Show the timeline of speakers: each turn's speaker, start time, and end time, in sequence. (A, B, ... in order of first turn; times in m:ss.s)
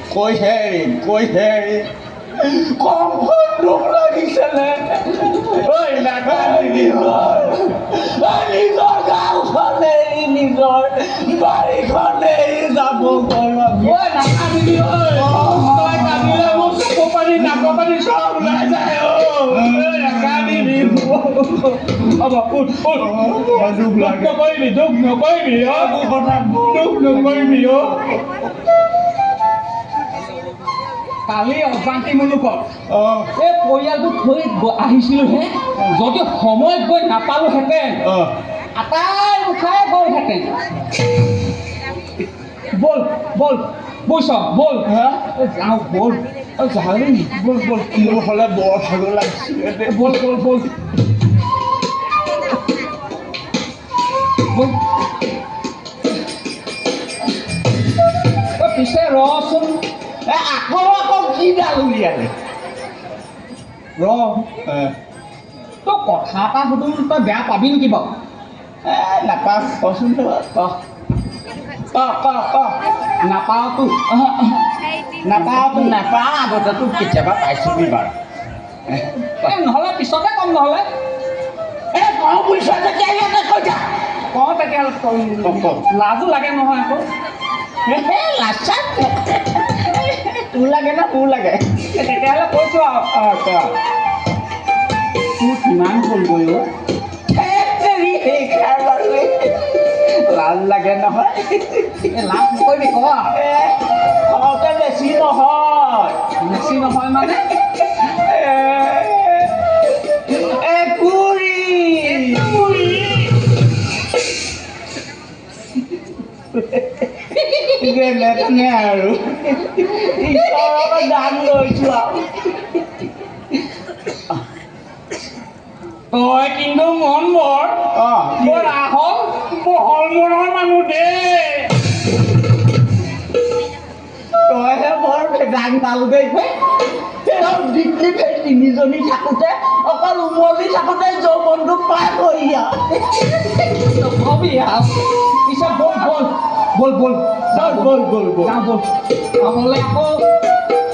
0:00.1-0:14.0 A
0:05.4-0:07.5 B
0:13.8-0:26.0 B
0:15.1-0:16.9 A
0:17.4-0:17.8 A
0:18.4-0:18.7 A
0:19.5-0:21.2 A
0:22.9-0:24.4 A
0:25.6-0:28.4 A
0:26.5-0:28.1 B
0:31.3-0:32.7 B
0:32.9-0:33.3 A
0:33.3-0:38.0 B
0:38.0-0:38.3 A
0:38.8-0:40.6 B
0:42.7-0:46.2 B
0:44.9-0:45.2 A
0:46.6-0:50.2 A
0:49.9-0:50.7 B
0:54.5-0:54.8 B
0:58.6-0:59.8 B
1:00.3-1:02.3 A
1:04.0-1:04.5 B
1:04.6-1:04.9 A
1:05.8-1:08.2 B
1:08.8-1:10.8 A
1:11.9-1:12.8 A
1:13.2-1:14.0 B
1:14.1-1:14.7 A
1:15.2-1:18.1 A
1:15.3-1:16.0 B
1:19.2-1:20.9 B
1:21.9-1:23.8 A
1:24.3-1:27.1 B
1:25.4-1:25.8 A
1:27.8-1:31.8 A
1:31.9-1:33.2 B
1:33.1-1:33.7 A
1:35.4-1:36.6 B
1:37.3-1:42.1 A
1:42.1-1:43.4 B
1:43.3-1:46.3 A
1:46.4-1:47.5 B
1:47.5-1:52.7 A
1:52.4-1:53.3 B
1:56.6-2:02.4 A
2:00.4-2:01.0 B
2:06.1-2:11.8 B
2:07.9-2:08.8 A
2:14.4-2:16.5 A
2:17.2-2:23.2 A
2:23.4-2:28.9 B
2:27.5-2:28.5 A
2:29.4-2:30.2 B